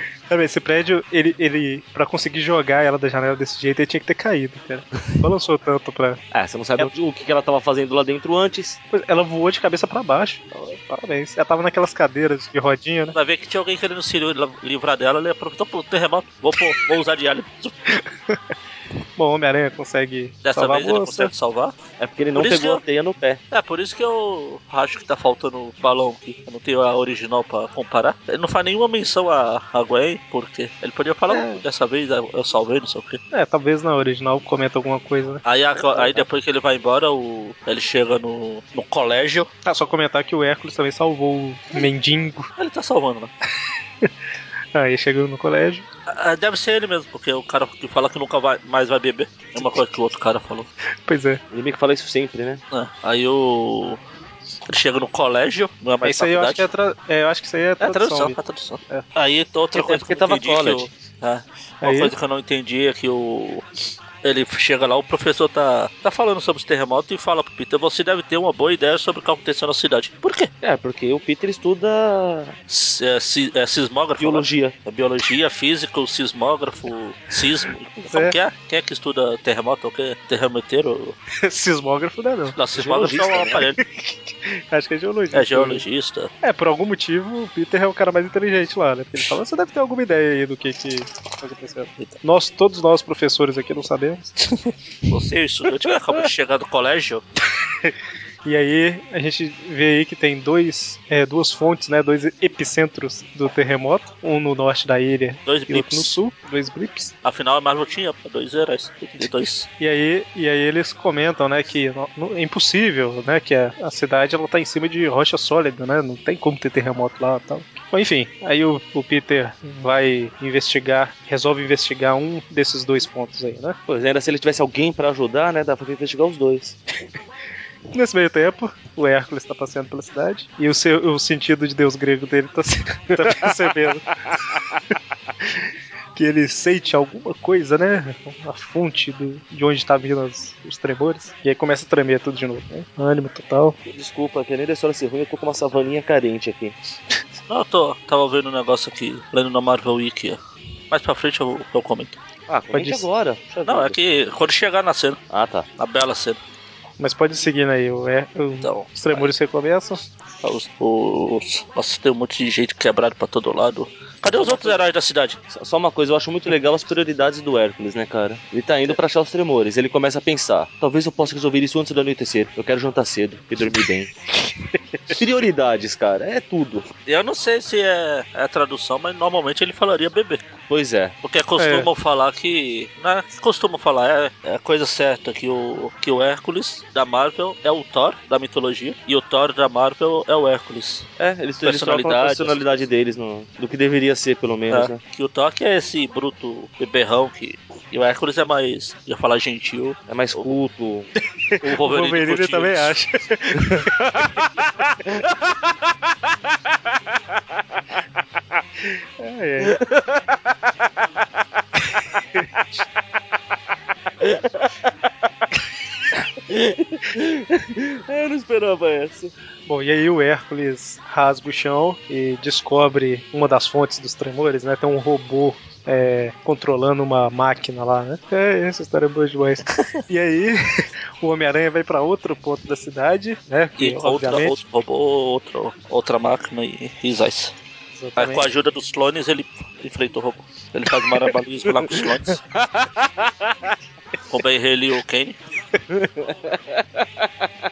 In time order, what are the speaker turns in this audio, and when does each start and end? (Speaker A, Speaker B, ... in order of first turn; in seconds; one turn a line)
Speaker A: 0.3-6.2
Speaker B: 6.3-8.8
Speaker A: 8.9-13.2
Speaker C: 13.2-17.7
Speaker A: 17.9-18.4
Speaker A: 19.2-21.3
Speaker C: 20.4-21.8
Speaker B: 22.0-23.4
Speaker C: 22.4-22.8
Speaker C: 23.5-33.2
Speaker A: 31.3-31.6
Speaker A: 33.3-36.3
Speaker C: 35.5-39.5
Speaker A: 39.6-42.5
Speaker C: 42.6-43.3
Speaker A: 44.7-45.9
Speaker C: 46.1-50.7
Speaker A: 51.1-51.4
Speaker B: 51.5-52.6
Speaker C: 52.7-54.0
Speaker C: 54.7-56.7
Speaker A: 56.0-58.4
Speaker C: 57.8-63.7
Speaker B: 59.8-60.9
Speaker A: 61.8-62.1
Speaker C: 64.2-70.5
Speaker B: 70.6-72.6
Speaker C: 72.7-81.2
Speaker B: 74.2-74.8
Speaker A: 78.0-78.4
Speaker A: 81.4-82.6
Speaker C: 82.5-83.8
Speaker B: 82.8-83.7
Speaker A: 83.8-85.8
Speaker C: 85.3-86.3
Speaker A: 86.4-94.3
Speaker C: 94.5-97.2
Speaker A: 98.5-107.1
Speaker C: 105.5-106.2
Speaker C: 107.2-109.7
Speaker A: 109.2-123.8
Speaker B: 123.9-126.8
Speaker A: 127.9-134.0
Speaker B: 134.3-134.8
Speaker A: 136.2-143.8
Speaker B: 143.9-146.8
Speaker C: 147.5-150.4
Speaker C: 150.9-152.2
Speaker B: 152.5-154.0
Speaker A: 152.7-153.1
Speaker C: 153.7-155.2
Speaker B: 155.3-155.7
Speaker C: 155.8-156.4
Speaker A: 157.0-160.0
Speaker C: 158.6-159.3
Speaker C: 160.4-165.4
Speaker B: 164.3-164.8
Speaker B: 165.5-174.1
Speaker B: 175.1-176.9
Speaker C: 177.1-180.4
Speaker B: 180.7-181.2
Speaker C: 181.2-191.1
Speaker A: 181.6-181.9
Speaker B: 191.2-195.0
Speaker C: 191.6-192.6
Speaker C: 194.7-200.0
Speaker B: 200.1-201.1
Speaker A: 201.4-204.3
Speaker C: 201.6-202.9
Speaker A: 209.2-209.8
Speaker B: 209.6-210.9
Speaker B: 214.2-215.1
Speaker B: 216.4-219.3
Speaker A: 219.7-234.6
Speaker C: 233.8-237.6
Speaker A: 237.9-238.4
Speaker C: 238.2-242.4
Speaker B: 242.6-243.7
Speaker C: 244.3-245.4
Speaker B: 245.9-247.5